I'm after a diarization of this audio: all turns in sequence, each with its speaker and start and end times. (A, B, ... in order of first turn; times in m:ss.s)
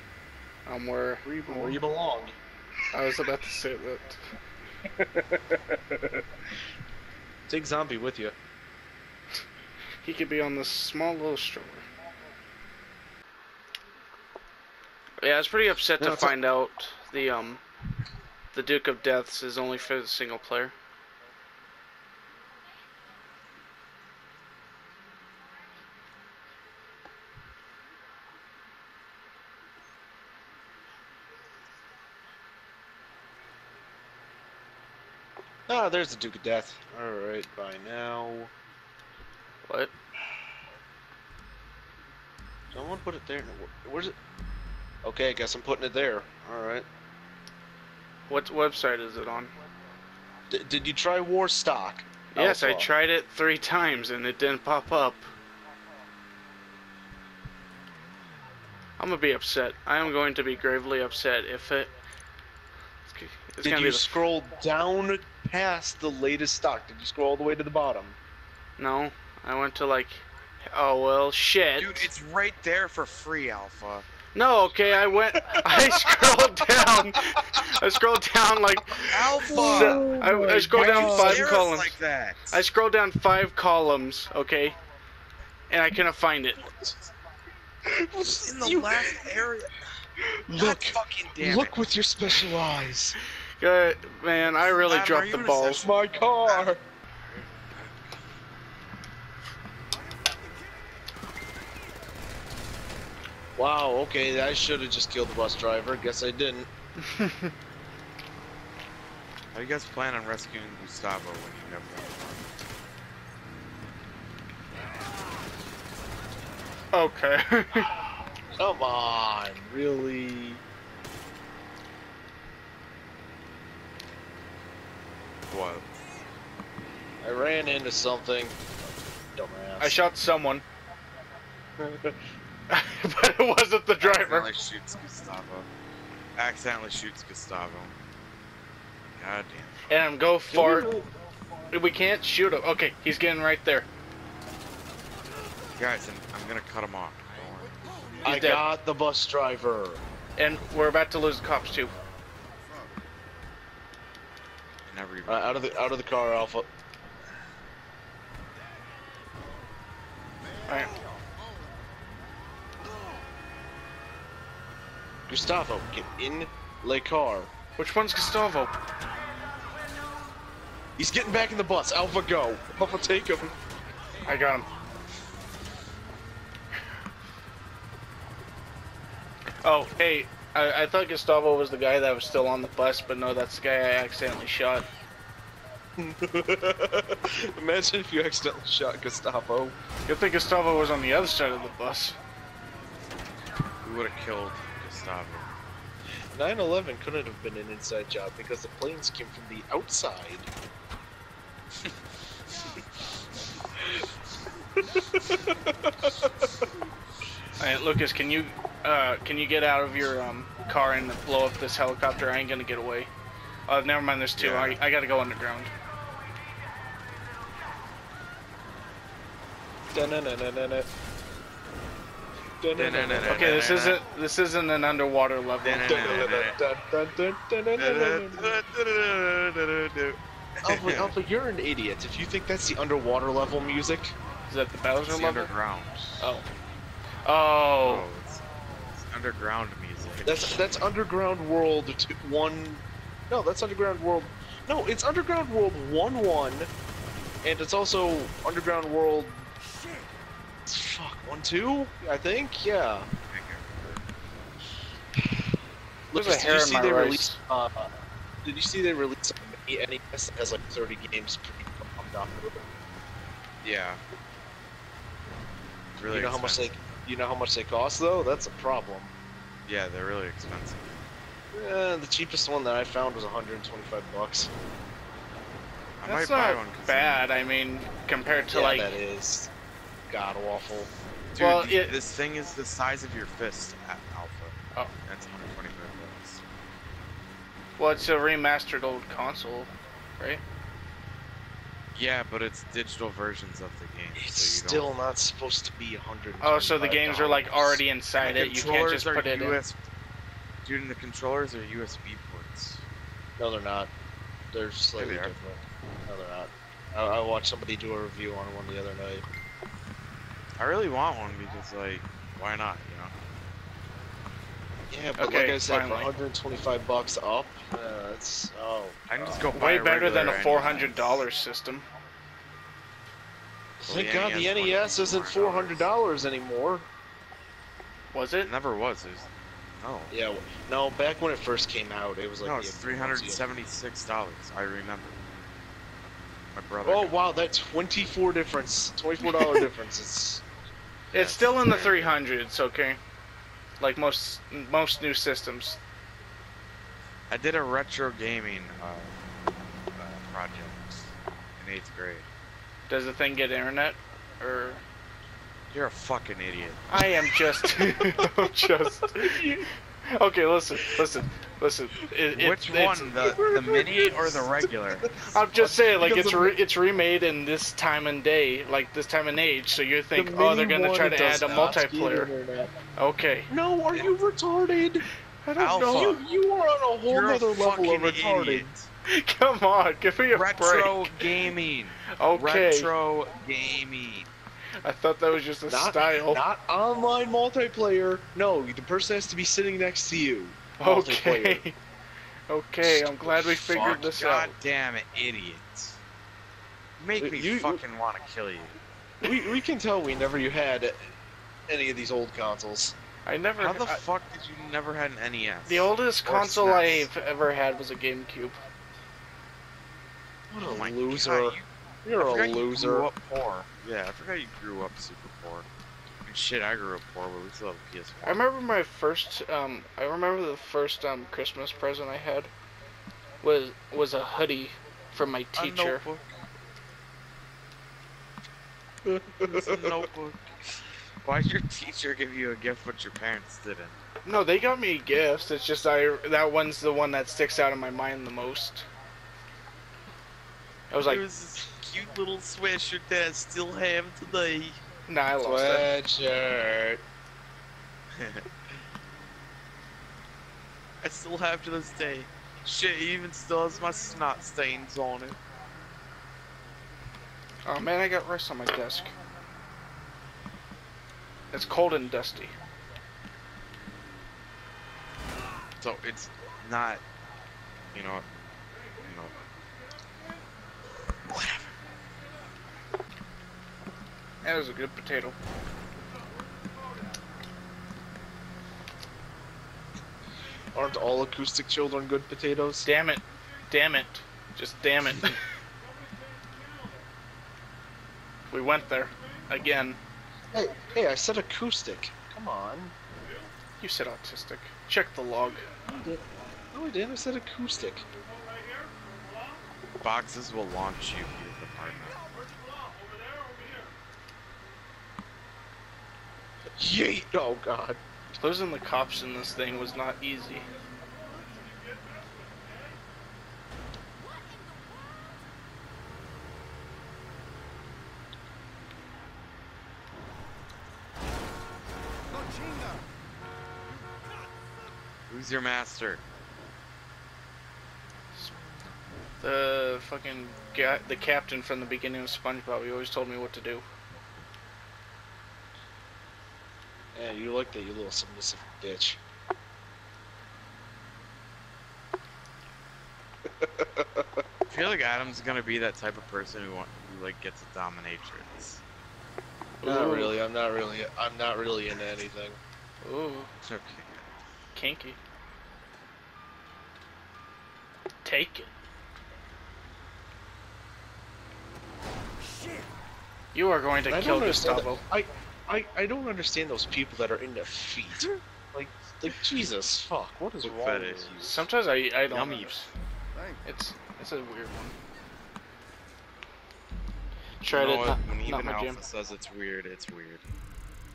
0:00.6-0:01.8 A
0:01.2-0:02.4 B
0:02.9-0:04.2 A
0:05.0-0:06.2 B
0:07.5-0:08.4 B
0:10.0-0:11.8 A
0:15.2-0:17.6 A
0:16.0-0:16.3 B
0:18.5-0:20.7 A
0:35.7-0:38.5 B
0:39.7-0:39.9 A
0:42.7-0:44.1 B
0:45.0-0:46.8 B
0:48.3-0:49.5 A
0:50.5-0:52.9 B
0:52.3-0:55.3 A
0:59.0-1:01.9 A
1:03.0-1:04.2 A
1:03.6-1:08.2 B
1:08.8-1:12.1 A
1:11.8-1:14.0 C
1:14.3-1:22.0 A
1:15.6-1:17.0 B
1:19.1-1:20.0 C
1:19.4-1:21.6 B
1:20.7-1:22.6 C
1:22.5-1:24.8 A
1:25.7-1:26.6 A
1:26.6-1:27.1 B
1:27.8-1:29.4 B
1:28.4-1:29.7 C
1:30.5-1:33.1 B
1:30.6-1:31.8 C
1:33.6-1:35.8 A
1:34.8-1:36.7 C
1:35.8-1:36.8 B
1:37.6-1:37.9 C
1:43.6-1:46.7 B
1:47.0-1:47.5 A
1:49.5-1:52.5 C
1:56.9-1:58.1 A
1:58.6-2:00.6 B
2:05.5-2:05.9 C
2:07.2-2:08.6 B
2:09.3-2:10.0 B
2:09.8-2:10.6 A
2:11.8-2:12.2 B
2:12.7-2:14.5 A
2:14.0-2:15.7 C
2:16.4-2:18.0 C
2:19.2-2:19.9 C
2:19.9-2:20.9 A
2:20.5-2:21.1 B
2:21.7-2:23.9 A
2:25.8-2:28.2 C
2:28.2-2:30.0 B
2:28.2-2:28.6 A
2:30.4-2:31.9 A
2:34.8-2:35.8 C
2:35.2-2:36.7 B
2:40.7-2:40.9 A
2:45.3-2:47.5 B
2:47.8-2:48.7 A
2:51.0-2:53.5 B
2:54.2-2:54.7 A
2:59.6-3:04.9 A
3:06.0-3:09.8 B
3:10.0-3:12.2 A
3:13.8-3:15.5 C
3:16.3-3:20.5 B
3:24.9-3:26.4 B
3:27.6-3:33.1 A
3:33.7-3:35.7 A
3:34.4-3:34.8 C
3:39.9-3:40.9 B
3:42.6-3:43.6 B
3:42.7-3:44.0 C
3:43.2-3:46.3 A
3:45.6-3:46.6 C
3:45.8-3:48.6 B
3:47.8-3:51.1 C
3:50.6-3:54.1 B
3:54.5-3:55.5 A
3:55.1-3:56.4 C
3:56.2-3:56.4 A
3:57.2-3:58.1 A
3:57.8-4:00.6 C
4:00.2-4:06.7 B
4:07.4-4:09.5 B
4:10.7-4:13.1 B
4:13.3-4:14.0 C
4:16.1-4:17.9 B
4:16.1-4:17.4 A
4:18.4-4:22.6 B
4:23.6-4:24.0 C
4:26.0-4:26.7 C
4:26.1-4:29.1 B
4:29.6-4:31.0 C
4:31.5-4:34.5 B
4:36.0-4:37.3 C
4:36.0-4:39.0 A
4:38.5-4:39.5 B
4:40.1-4:40.9 B
4:41.3-4:46.4 C
4:41.4-4:41.9 A
4:47.8-4:50.4 A
4:51.9-4:54.9 C
4:54.2-4:57.8 B
4:56.4-4:59.6 A
4:58.2-4:59.8 C
5:00.6-5:02.8 C
5:03.4-5:03.9 B
5:04.5-5:09.2 B
5:05.0-5:05.3 C
5:10.6-5:13.1 C
5:14.9-5:19.5 B
5:15.2-5:16.1 A
5:19.1-5:21.2 C
5:19.5-5:21.8 A
5:23.8-5:26.9 B
5:23.8-5:25.9 C
5:28.1-5:28.5 A
5:28.4-5:29.3 C
5:29.8-5:30.1 C
5:30.1-5:33.4 B
5:32.4-5:35.2 C
5:36.5-5:37.2 C
5:36.8-5:40.4 B
5:41.1-5:42.2 C
5:41.1-5:43.0 A
5:43.8-5:45.8 A
5:47.3-5:49.2 C
5:50.0-5:52.3 C
5:52.9-5:54.8 A
5:55.7-5:56.8 C
5:56.9-5:59.4 A
5:57.7-5:58.3 B
5:59.1-5:59.7 B
6:00.0-6:03.2 A
6:02.3-6:05.2 C
6:03.2-6:06.6 B
6:05.3-6:12.3 A
6:10.1-6:12.7 B
6:13.0-6:13.5 A
6:13.5-6:18.7 B
6:15.6-6:16.2 C
6:17.1-6:18.9 C
6:19.1-6:21.2 A
6:20.3-6:24.3 C
6:22.1-6:22.9 A
6:24.8-6:26.4 A
6:25.7-6:31.6 B
6:30.8-6:31.8 A
6:32.5-6:34.5 A
6:32.8-6:34.1 B
6:33.8-6:36.0 C
6:37.0-6:38.8 C
6:37.2-6:37.8 B
6:39.2-6:41.0 B
6:41.7-6:42.9 B
6:43.2-6:44.0 A
6:43.6-6:47.1 C
6:45.6-6:48.6 A
6:50.5-6:53.1 B
6:50.6-6:51.6 C
6:52.2-6:55.7 C
6:56.2-6:58.5 C
6:58.2-7:02.5 A
7:03.4-7:06.0 A
7:05.6-7:06.5 C
7:09.0-7:10.1 B
7:09.4-7:14.0 C
7:14.2-7:18.9 A
7:20.9-7:21.2 A
7:21.0-7:24.8 C
7:25.1-7:25.9 A
7:25.4-7:27.0 B
7:28.1-7:28.5 C
7:31.0-7:35.4 C
7:37.7-7:39.1 A
7:41.5-7:42.6 A
7:45.8-7:47.0 C
7:47.9-7:48.2 C
7:49.0-7:49.4 C
7:51.3-7:51.7 C
7:54.4-7:55.4 A
8:00.7-8:02.8 B
8:02.8-8:05.4 A
8:08.5-8:10.0 A
8:10.5-8:12.9 B
8:13.8-8:15.6 A
8:16.7-8:18.1 B
8:20.0-8:22.2 C
8:26.8-8:28.0 B
8:28.3-8:30.6 A
8:45.3-8:46.2 C
8:49.4-8:53.8 A
8:57.1-8:59.2 B
9:03.6-9:04.4 B
9:04.7-9:08.8 C
9:09.8-9:10.4 A
9:09.8-9:12.6 B
9:13.0-9:13.5 A
9:13.6-9:14.2 C
9:14.7-9:15.2 A
9:18.2-9:18.7 A
9:23.5-9:25.0 A
9:24.1-9:31.6 B
9:30.6-9:31.4 C
9:31.4-9:32.9 A
9:32.3-9:32.7 C
9:33.6-9:34.9 A
9:37.6-9:39.0 A
9:37.7-9:40.5 C